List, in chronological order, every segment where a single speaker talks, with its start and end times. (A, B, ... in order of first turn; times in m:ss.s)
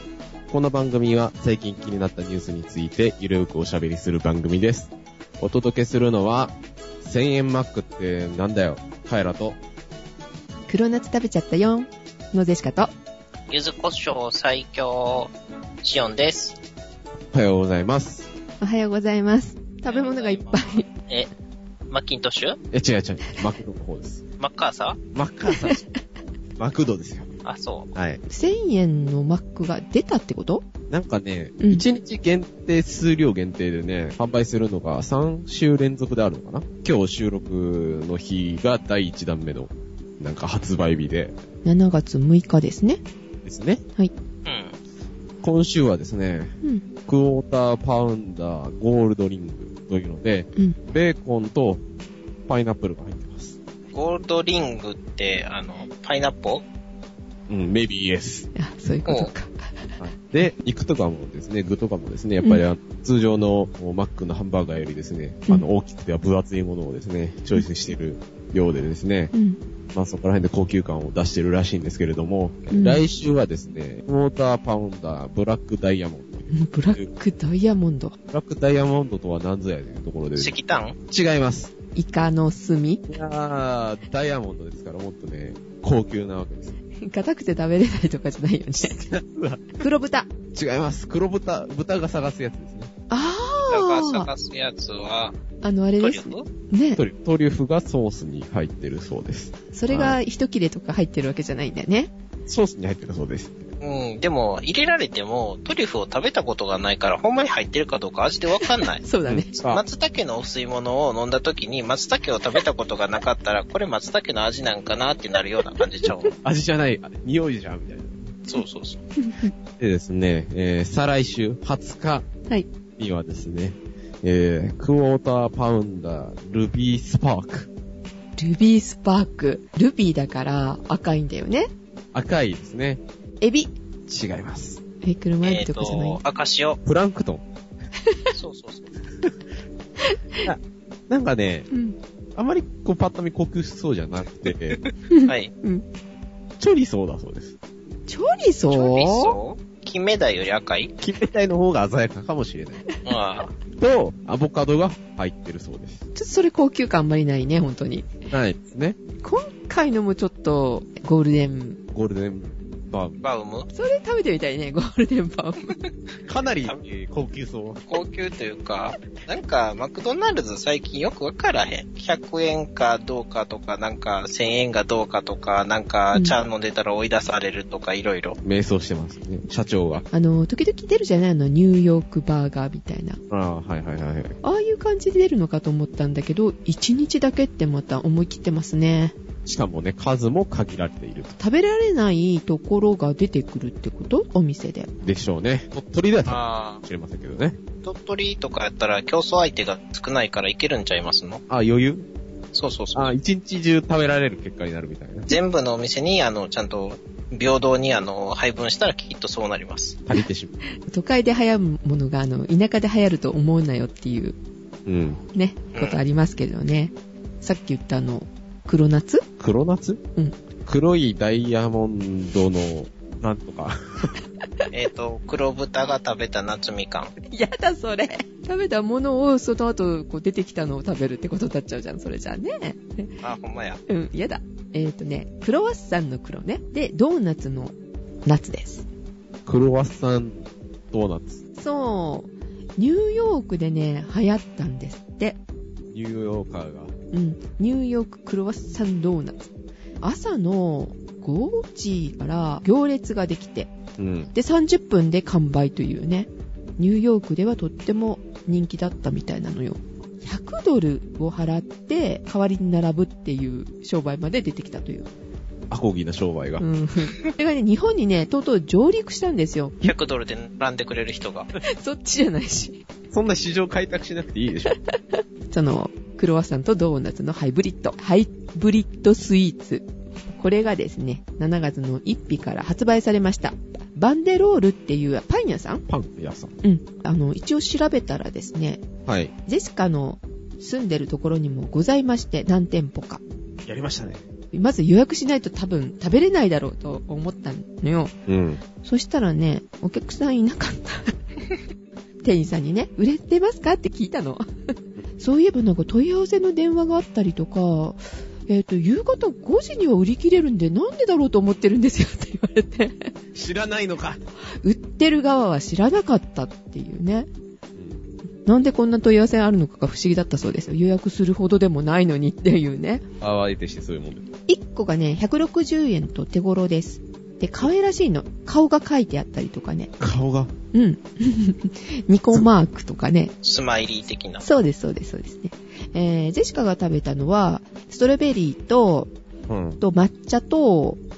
0:00.5-0:09.6 A
0:10.7-0:12.9 B
0:13.5-0:15.3 C
0:15.8-0:16.6 C
0:17.3-0:18.3 A
0:18.6-0:20.9 B
0:19.9-0:21.3 C
0:21.9-0:22.6 C
0:22.7-0:24.2 A
0:24.4-0:25.0 C
0:25.1-0:25.8 A
0:25.5-0:25.8 B
0:26.6-0:27.3 A
0:27.4-0:27.9 C
0:27.9-0:28.2 A
0:28.3-0:30.6 B
0:30.9-0:41.3 A
0:31.6-0:31.8 B
0:41.6-0:43.0 B
0:43.4-0:43.8 A
0:44.4-0:44.7 C
0:45.4-0:46.6 A
0:47.1-0:51.8 A
0:52.5-0:53.6 A
0:53.9-0:56.6 C
0:57.5-0:58.5 A
0:58.6-0:59.7 B
1:00.0-1:09.3 A
1:09.3-1:09.6 B
1:09.9-1:17.1 A
1:12.7-1:13.0 B
1:16.5-1:18.2 B
1:18.3-1:21.7 A
1:20.4-1:21.0 C
1:22.0-1:23.0 B
1:23.1-1:26.8 A
1:27.0-1:29.0 B
1:28.8-1:29.8 A
1:29.8-1:30.3 B
1:30.5-1:32.9 A
1:33.1-1:34.3 B
1:33.7-1:35.4 C
1:35.6-1:37.0 B
1:36.0-1:36.4 C
1:37.0-1:40.2 A
1:39.7-1:42.1 B
1:42.5-1:43.7 A
1:43.8-1:49.0 C
1:49.0-1:49.5 B
1:49.2-1:49.8 A
1:49.6-1:56.3 C
1:56.4-1:58.3 A
1:58.5-1:59.0 C
1:59.2-1:59.5 B
1:59.8-2:02.3 A
2:03.0-2:07.7 A
2:08.4-2:11.7 B
2:12.1-2:13.0 A
2:13.4-2:13.7 B
2:14.1-2:14.8 A
2:15.0-2:16.2 B
2:15.4-2:16.8 C
2:16.8-2:17.4 A
2:18.0-2:18.3 B
2:18.3-2:18.9 C
2:20.0-2:20.5 B
2:20.4-2:21.7 A
2:21.7-2:22.0 B
2:22.4-2:24.8 A
2:25.1-2:25.8 B
2:25.3-2:25.5 C
2:26.6-2:27.5 A
2:28.1-2:29.4 B
2:28.7-2:30.9 C
2:31.0-2:32.8 A
2:33.0-2:33.5 C
2:33.7-2:36.0 A
2:36.2-2:38.1 B
2:38.3-2:39.0 A
2:39.2-2:41.8 B
2:41.9-2:43.2 A
2:43.2-2:43.7 C
2:43.7-2:45.7 B
2:46.3-2:47.9 A
2:47.9-2:58.4 C
2:58.4-3:00.0 A
3:00.1-3:03.2 B
3:03.3-3:04.4 A
3:04.4-3:09.2 B
3:09.4-3:11.4 A
3:11.4-3:14.9 B
3:15.0-3:17.6 A
3:16.3-3:16.8 C
3:17.8-3:21.4 C
3:21.5-3:22.1 A
3:22.5-3:23.1 C
3:22.9-3:25.3 A
3:25.3-3:30.0 C
3:30.1-3:30.6 A
3:30.8-3:34.4 B
3:34.9-3:35.2 A
3:35.3-3:39.2 B
3:39.4-3:40.0 A
3:40.6-3:44.1 A
3:44.7-3:47.1 C
3:47.3-3:53.1 B
3:53.2-3:53.8 C
3:53.9-3:58.8 B
3:59.5-4:01.4 A
4:01.6-4:05.4 B
4:05.9-4:07.0 A
4:07.1-4:09.5 B
4:10.0-4:13.7 B
4:14.0-4:14.3 A
4:14.3-4:25.1 B
4:25.7-4:26.6 A
4:26.6-4:29.9 B
4:29.8-4:31.5 C
4:31.6-4:32.8 B
4:33.1-4:34.8 A
4:34.7-4:45.8 B
4:45.9-4:46.5 A
4:46.6-4:48.8 B
4:49.1-4:49.3 A
4:49.4-4:53.2 B
4:53.6-4:54.2 A
4:54.5-4:58.1 B
4:58.3-4:58.6 A
4:58.8-5:01.1 B
5:02.2-5:13.1 B
5:13.3-5:14.2 A
5:14.6-5:17.3 B
5:17.8-5:18.1 A
5:18.4-5:23.0 B
5:23.2-5:24.3 A
5:24.5-5:29.9 B
5:30.0-5:30.5 A
5:30.7-5:33.3 B
5:33.4-5:34.4 C
5:34.4-5:39.1 B
5:39.5-5:39.8 A
5:39.8-5:41.0 B